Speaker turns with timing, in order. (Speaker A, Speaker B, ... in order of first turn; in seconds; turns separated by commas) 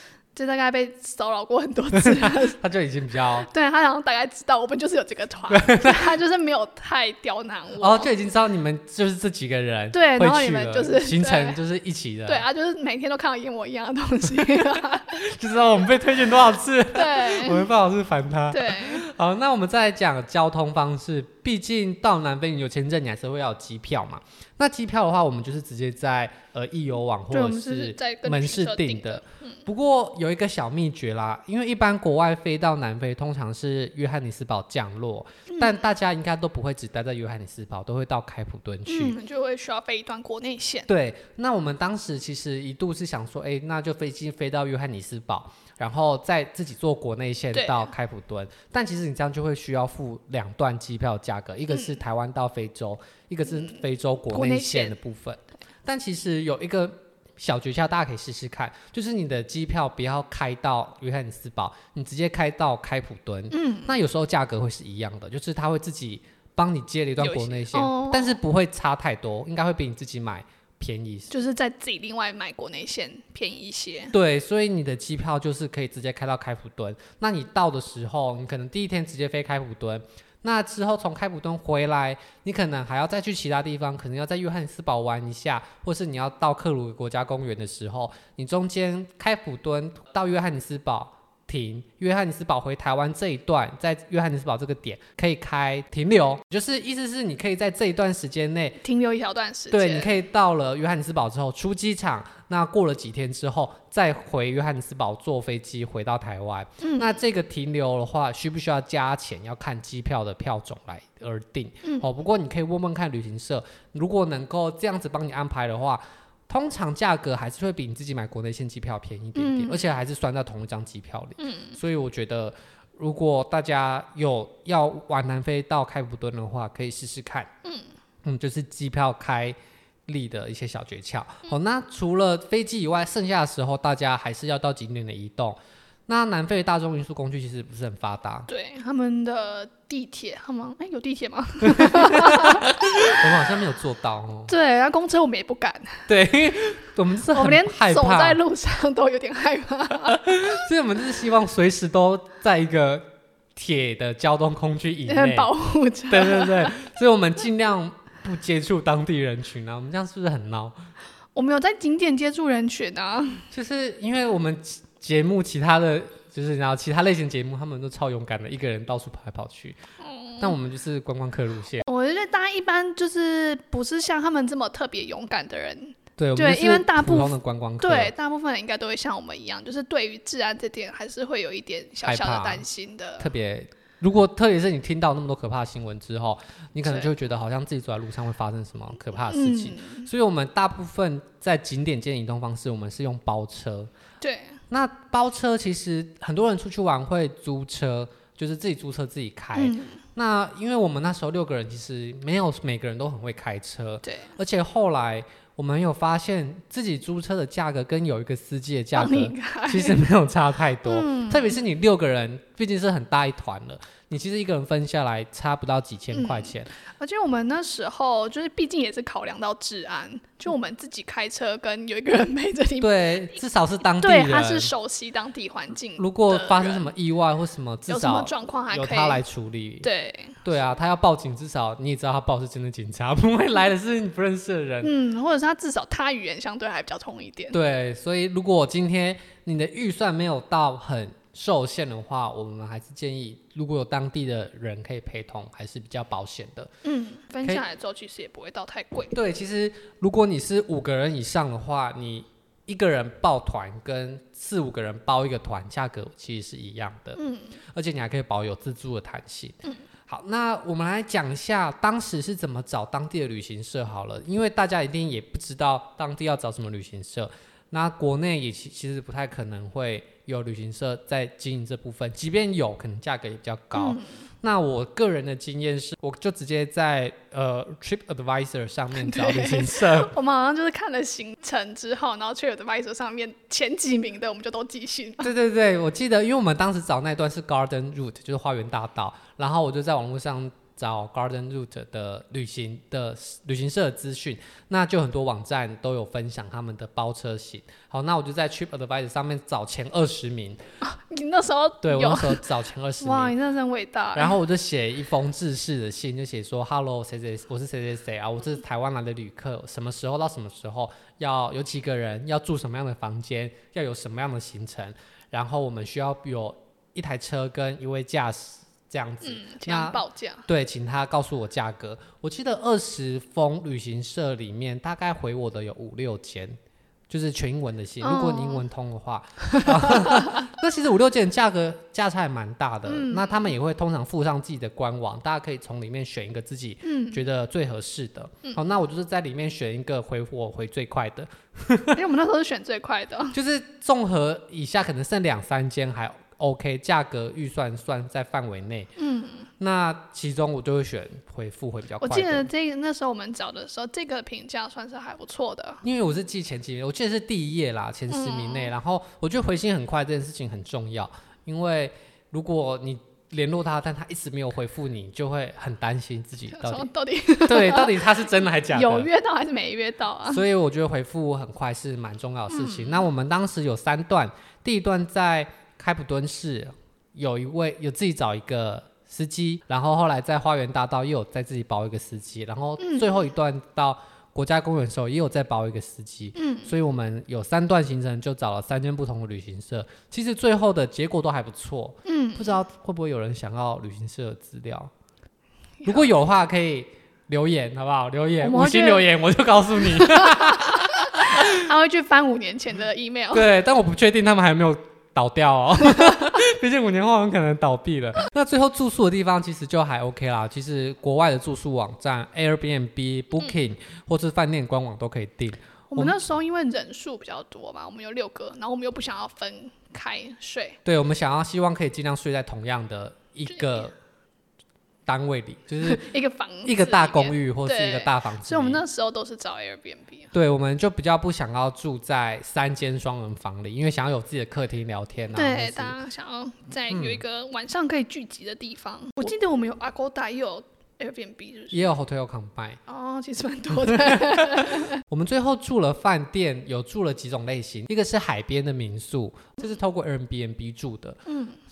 Speaker A: 0.3-2.6, Speaker B: 1.9-3.5, Speaker A: 3.4-8.1, Speaker B: 5.5-6.2, Speaker B: 7.8-12.5, Speaker A: 9.9-11.6, Speaker A: 12.2-15.2, Speaker B: 14.4-39.1, Speaker A: 16.9-17.7, Speaker A: 18.5-19.1, Speaker A: 27.3-29.6, Speaker A: 35.5-35.8, Speaker A: 38.9-40.9, Speaker B: 40.9-71.3, Speaker A: 47.5-47.9, Speaker A: 51.7-52.0, Speaker A: 54.3-55.0, Speaker A: 63.5-64.0, Speaker A: 67.2-68.4, Speaker A: 71.3-74.1, Speaker B: 74.1-98.8, Speaker A: 98.8-100.2, Speaker B: 99.7-127.5, Speaker A: 106.8-107.2, Speaker A: 119.4-119.9, Speaker A: 121.4-121.8, Speaker B: 128.2-129.6, Speaker B: 130.1-138.5, Speaker A: 138.5-143.2, Speaker B: 141.6-144.5, Speaker A: 144.5-146.1, Speaker B: 146.1-148.4, Speaker A: 147.3-150.2, Speaker B: 150.1-155.5, Speaker A: 155.1-156.8, Speaker B: 156.1-160.7, Speaker A: 161.3-163.4, Speaker B: 163.5-169.8, Speaker A: 170.0-170.6, Speaker B: 170.4-171.8, Speaker A: 171.8-183.3, Speaker B: 176.2-178.1, Speaker B: 182.1-182.6, Speaker B: 183.2-193.9, Speaker A: 186.8-187.1, Speaker A: 189.2-190.1, Speaker A: 194.2-194.6, Speaker B: 194.7-216.7, Speaker A: 199.6-200.0, Speaker A: 204.0-204.3, Speaker A: 208.9-210.0, Speaker A: 210.8-211.6, Speaker A: 216.1-223.4, Speaker B: 222.8-224.7, Speaker A: 223.9-226.9, Speaker B: 226.0-229.9, Speaker A: 227.9-229.2, Speaker A: 229.8-230.4, Speaker B: 230.4-234.9, Speaker A: 234.8-237.6, Speaker B: 237.5-246.7, Speaker A: 246.8-249.1, Speaker B: 249.1-257.2, Speaker A: 257.1-257.6, Speaker B: 257.7-280.1, Speaker A: 273.7-274.1, Speaker A: 278.9-285.3, Speaker B: 285.2-300.6, Speaker A: 300.8-302.4, Speaker B: 301.8-303.4, Speaker A: 303.0-304.4, Speaker B: 304.1-326.6, Speaker A: 319.2-320.4, Speaker B: 327.1-342.0, Speaker A: 328.0-328.6, Speaker A: 329.6-330.2, Speaker A: 332.9-333.5, Speaker A: 336.8-337.2, Speaker A: 341.9-343.4, Speaker B: 343.3-348.9, Speaker A: 349.0-349.5, Speaker B: 349.6-352.5, Speaker A: 352.0-355.8, Speaker B: 355.8-366.9, Speaker A: 358.1-358.7, Speaker A: 366.5-368.2, Speaker B: 367.4-369.1, Speaker A: 368.7-370.4, Speaker B: 370.2-394.9, Speaker A: 372.5-373.1, Speaker A: 382.8-383.1, Speaker A: 386.4-386.7, Speaker A: 392.1-392.6, Speaker A: 395.8-396.1, Speaker B: 395.9-401.6, Speaker A: 398.4-399.1, Speaker A: 399.9-403.5, Speaker B: 403.3-416.1, Speaker A: 405.8-406.4, Speaker A: 415.9-420.8, Speaker B: 420.9-423.9, Speaker A: 423.5-423.8, Speaker B: 425.1-426.1, Speaker A: 425.8-430.3, Speaker B: 426.6-428.8, Speaker B: 430.3-435.9, Speaker A: 435.3-441.9, Speaker B: 436.9-437.2, Speaker B: 441.7-442.8, Speaker A: 442.9-445.0, Speaker B: 443.7-451.2, Speaker A: 451.3-451.6